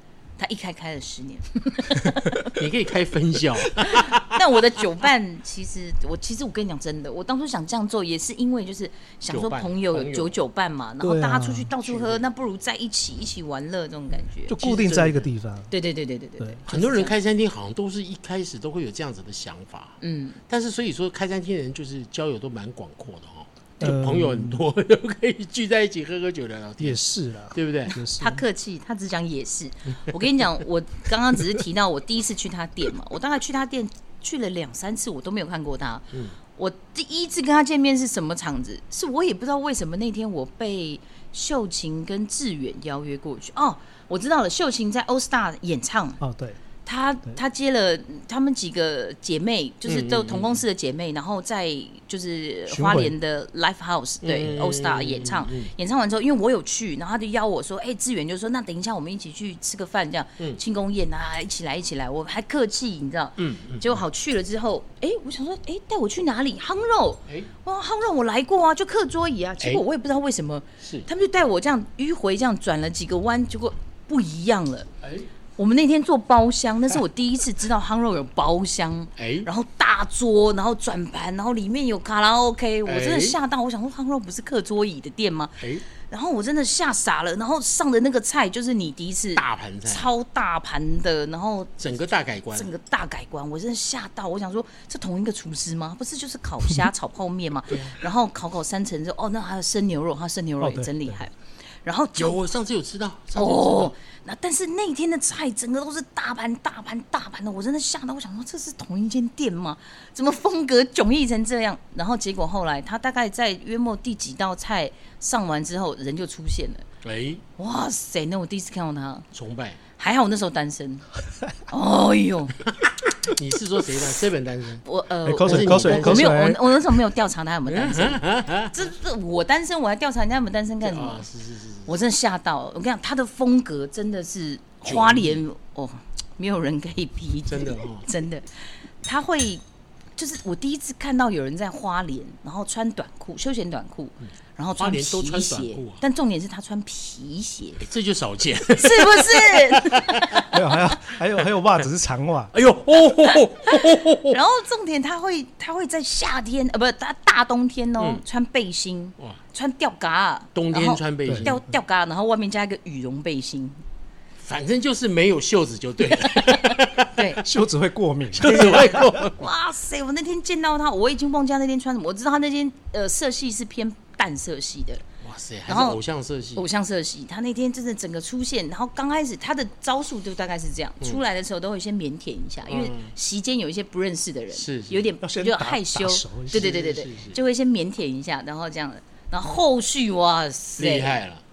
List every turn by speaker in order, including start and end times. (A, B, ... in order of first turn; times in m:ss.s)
0:00.4-0:02.6 A
0:02.5-0:04.4 B
0:03.8-0:17.1 A
0:09.3-0:10.4 B
0:11.0-0:11.7 C
0:11.8-0:12.2 B
0:14.5-0:15.7 C
0:16.7-0:28.0 B
0:20.0-0:20.4 A
0:23.8-0:24.6 C
0:26.8-0:28.4 C
0:28.2-0:46.2 A
0:46.2-0:46.6 C
0:46.8-1:14.9 A
0:49.8-0:50.6 B
0:52.7-0:53.1 C
0:54.2-0:55.7 B
1:03.4-1:04.0 B
1:10.8-1:11.1 B
1:15.0-1:15.3 B
1:15.6-1:31.8 A
1:19.2-1:19.5 B
1:22.8-1:23.4 B
1:29.4-1:30.1 B
1:31.8-1:32.7 B
1:32.5-1:42.4 A
1:37.7-1:38.0 B
1:40.6-1:41.2 C
1:42.2-1:43.9 B
1:43.4-1:56.8 A
1:57.0-1:57.4 B
1:57.6-1:59.3 A
1:59.3-1:59.8 B
2:00.0-2:01.1 A
2:01.7-2:02.6 A
2:02.7-2:04.8 B
2:04.8-2:11.2 A
2:05.2-2:06.7 C
2:05.4-2:06.4 B
2:07.7-2:08.7 B
2:10.8-2:11.9 B
2:11.8-2:19.6 A
2:14.8-2:15.4 B
2:17.5-2:18.1 B
2:20.2-2:27.8 A
2:24.8-2:26.0 B
2:27.8-2:30.5 B
2:28.8-2:30.5 A
2:30.5-2:32.5 C
2:32.5-2:34.4 B
2:33.2-2:43.8 A
2:40.5-2:41.6 B
2:44.4-2:47.2 B
2:46.3-2:47.4 A
2:47.4-2:49.2 C
2:48.4-2:49.4 B
2:48.4-2:55.0 A
2:55.2-2:56.6 B
2:55.7-2:56.0 A
2:56.6-3:11.2 A
3:02.6-3:03.1 B
3:04.5-3:05.1 B
3:05.2-3:06.7 C
3:06.5-3:07.4 B
3:10.8-3:11.4 B